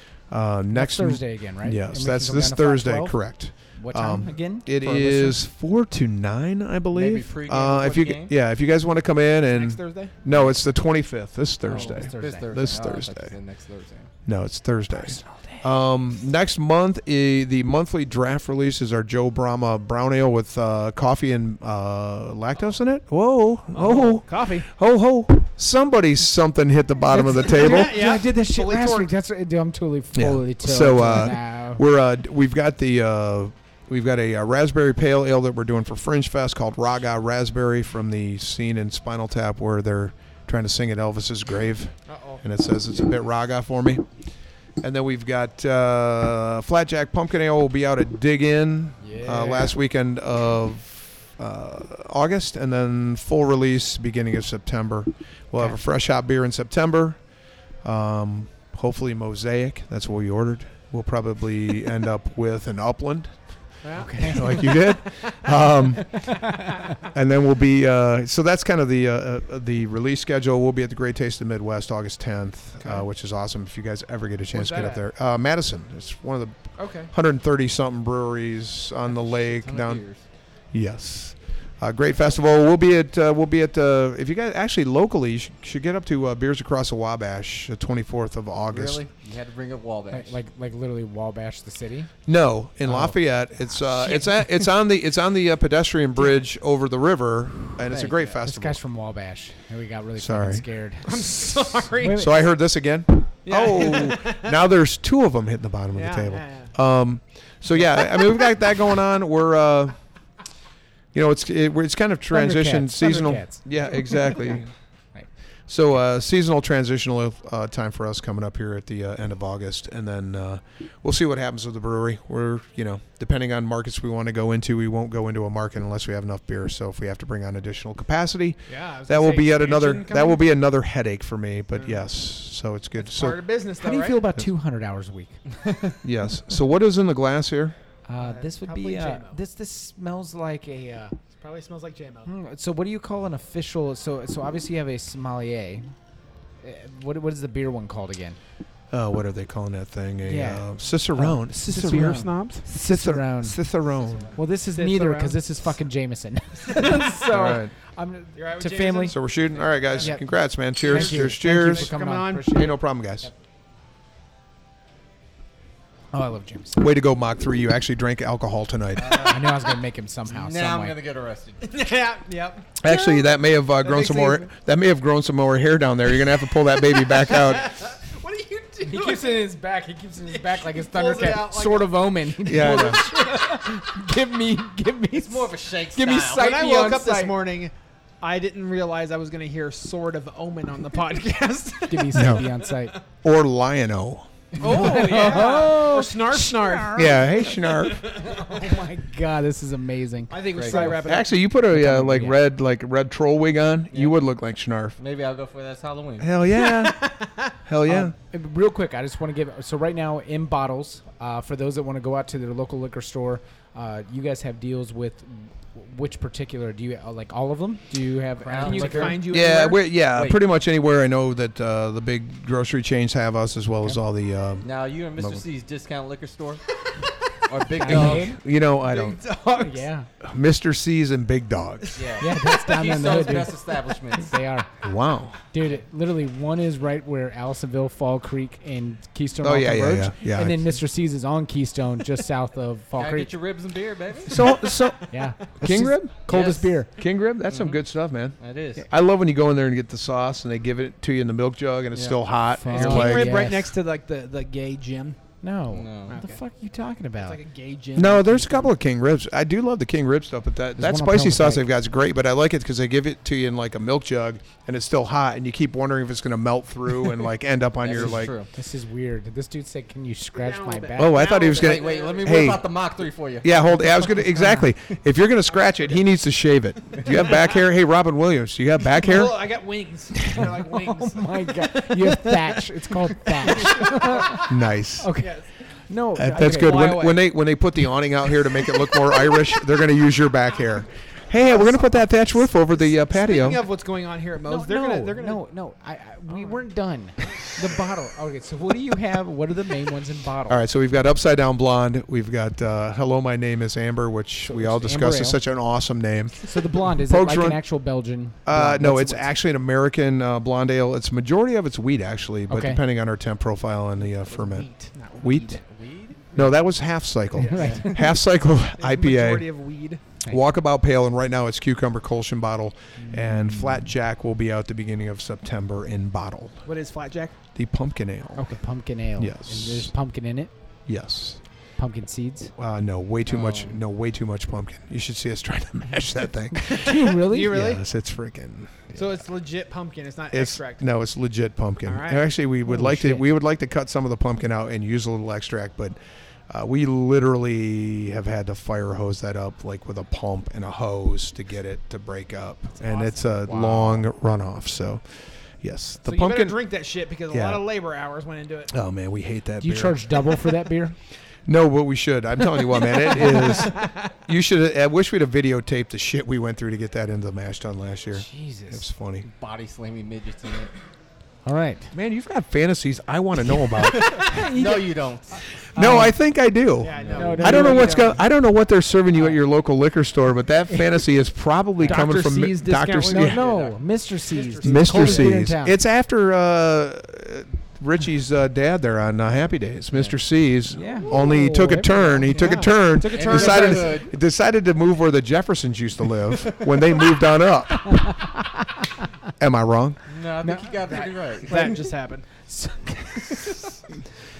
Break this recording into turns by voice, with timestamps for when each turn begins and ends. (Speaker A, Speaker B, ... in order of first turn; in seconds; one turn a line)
Speaker A: 0.3-13.3
Speaker B: 0.7-3.2
Speaker B: 3.8-5.4
Speaker C: 6.9-8.3
Speaker D: 9.5-10.1
Speaker B: 11.7-12.5
Speaker C: 11.7-14.1
Speaker A: 14.2-28.0
Speaker B: 14.9-15.7
Speaker D: 23.7-24.7
Speaker B: 27.1-31.8
Speaker D: 27.4-29.1
Speaker A: 30.1-44.0
Speaker D: 42.1-42.6
Speaker A: 44.8-57.2
Speaker B: 49.0-49.7
Speaker A: 57.8-63.4
Speaker D: 63.8-64.6
Speaker B: 64.0-65.0
Speaker A: 64.2-66.4
Speaker B: 66.1-66.9
Speaker A: 67.0-80.0
Speaker D: 74.5-75.0
Speaker D: 76.8-77.1
Speaker C: 79.4-80.2
Speaker A: 80.7-89.0
Speaker C: 88.7-90.3
Speaker B: 90.1-92.1
Speaker A: 92.3-98.8
Speaker B: 92.8-93.2
Speaker C: 97.9-98.3
Speaker B: 98.4-102.4
Speaker A: 100.2-100.6
Speaker D: 101.0-102.3
Speaker A: 102.1-109.9
Speaker D: 103.4-104.6
Speaker D: 105.9-106.7
Speaker A: 111.1-114.7
Speaker B: 112.3-114.6
Speaker A: 115.7-133.4
Speaker D: 128.7-130.4
Speaker D: 131.7-132.1
Speaker D: 133.0-134.2
Speaker B: 133.8-135.4
Speaker C: 135.6-135.9
Speaker A: 136.0-137.8
Speaker B: 138.1-141.1
Speaker D: 138.2-139.4
Speaker D: 141.3-142.3
Speaker B: 142.3-145.9
Speaker B: 146.6-148.4
Speaker A: 148.9-154.3
Speaker B: 150.2-153.6
Speaker D: 151.6-152.6
Speaker B: 154.3-159.2
Speaker D: 154.7-155.4
Speaker D: 156.7-157.2
Speaker A: 157.3-157.7
Speaker D: 158.3-160.2
Speaker A: 159.1-161.9
Speaker B: 160.0-163.3
Speaker D: 160.8-162.7
Speaker A: 162.5-163.3
Speaker B: 166.1-166.9
Speaker A: 166.8-169.3
Speaker C: 169.0-169.4
Speaker B: 169.2-170.9
Speaker C: 170.3-171.7
Speaker D: 171.6-173.3
Speaker A: 172.8-177.9
Speaker D: 173.8-174.5
Speaker D: 176.9-179.5
Speaker B: 178.8-187.4
Speaker D: 180.3-183.7
Speaker A: 182.4-183.0
Speaker C: 185.1-186.6
Speaker D: 186.3-193.0
Speaker B: 191.9-192.9
Speaker A: 192.1-192.5
Speaker A: 193.2-194.6
Speaker D: 194.6-198.8
Speaker B: 194.6-197.5
Speaker A: 196.9-198.2
Speaker B: 198.2-202.4
Speaker D: 200.3-201.3
Speaker C: 200.6-200.9
Speaker A: 200.9-204.9
Speaker C: 203.9-204.2
Speaker C: 205.0-206.3
Speaker A: 206.2-207.1
Speaker D: 206.5-207.5
Speaker A: 207.6-208.1
Speaker B: 207.8-219.2
Speaker C: 218.4-219.2
Speaker D: 218.6-219.8
Speaker A: 219.3-225.4
Speaker C: 220.1-220.4
Speaker C: 224.6-226.6
Speaker C: 227.5-228.3
Speaker B: 227.8-228.4
Speaker A: 227.8-229.2
Speaker D: 228.8-229.9
Speaker B: 229.6-230.1
Speaker A: 230.2-232.0
Speaker C: 232.0-234.3
Speaker B: 232.2-234.7
Speaker A: 234.8-235.4
Speaker B: 235.5-243.3
Speaker A: 239.4-240.8
Speaker C: 242.9-244.5
Speaker A: 244.3-246.1
Speaker B: 245.1-246.9
Speaker C: 246.3-246.8
Speaker A: 247.0-253.4
Speaker C: 247.5-247.8
Speaker C: 248.4-248.8
Speaker C: 251.9-252.2
Speaker B: 252.5-253.7
Speaker D: 252.7-255.2
Speaker B: 255.4-257.4
Speaker C: 255.7-256.1
Speaker D: 256.1-256.4
Speaker D: 257.2-258.7
Speaker A: 257.9-268.4
Speaker B: 260.8-261.7
Speaker C: 267.8-268.5
Speaker B: 268.4-271.4
Speaker D: 270.4-272.5
Speaker A: 270.9-272.7
Speaker C: 271.4-273.6
Speaker A: 273.4-279.4
Speaker B: 274.1-274.7
Speaker D: 275.5-276.1
Speaker D: 277.1-277.5
Speaker D: 278.9-282.4
Speaker B: 280.6-285.4
Speaker D: 283.4-284.4
Speaker A: 284.3-285.2
Speaker D: 285.2-285.5
Speaker B: 285.9-287.0
Speaker A: 286.1-293.6
Speaker D: 286.3-287.2
Speaker D: 291.4-292.2
Speaker D: 292.8-295.4
Speaker B: 294.4-300.6
Speaker D: 296.3-296.6
Speaker A: 300.5-306.4
Speaker B: 304.4-305.4
Speaker B: 306.4-309.3
Speaker A: 307.0-307.6
Speaker A: 308.4-314.7
Speaker B: 312.5-312.8
Speaker D: 314.2-315.6
Speaker A: 315.2-315.6
Speaker C: 315.7-316.2
Speaker A: 316.3-319.4
Speaker D: 317.4-318.0
Speaker B: 317.4-318.1
Speaker C: 317.5-317.9
Speaker D: 318.8-320.0
Speaker A: 320.3-326.6
Speaker D: 323.0-323.4
Speaker D: 326.6-327.4
Speaker A: 327.6-328.5
Speaker B: 328.4-330.5
Speaker A: 329.2-329.9
Speaker A: 330.9-331.4
Speaker B: 331.8-332.5
Speaker A: 332.6-339.2
Speaker C: 333.3-333.8
Speaker B: 336.5-337.6
Speaker D: 336.7-337.8
Speaker D: 338.9-340.9
Speaker A: 340.3-345.9
Speaker D: 341.9-342.3
Speaker B: 342.6-343.3
Speaker A: 346.5-356.6
Speaker D: 352.8-353.2
Speaker B: 353.4-354.1
Speaker D: 356.1-358.7
Speaker A: 357.3-357.6
Speaker A: 358.7-360.2
Speaker B: 359.6-360.9
Speaker A: 361.4-369.3
Speaker D: 363.1-363.9
Speaker B: 368.1-368.8
Speaker C: 369.3-370.7
Speaker B: 371.4-371.9
Speaker A: 371.9-374.3
Speaker C: 374.0-375.4
Speaker B: 374.2-374.9
Speaker A: 375.7-383.4
Speaker B: 375.8-376.1
Speaker D: 375.8-376.1
Speaker D: 376.8-378.1
Speaker C: 377.0-377.5
Speaker B: 377.1-378.2
Speaker B: 381.8-382.1
Speaker D: 381.9-383.6
Speaker B: 383.1-385.8
Speaker C: 383.4-383.8
Speaker D: 384.3-385.4
Speaker A: 384.6-398.2
Speaker C: 389.9-390.2
Speaker B: 390.7-392.3
Speaker D: 391.0-394.1
Speaker C: 393.1-394.1
Speaker B: 398.1-398.4
Speaker A: 399.4-400.0
Speaker C: 400.1-401.8
Speaker B: 400.4-401.8
Speaker D: 400.9-402.3
Speaker B: 402.4-403.6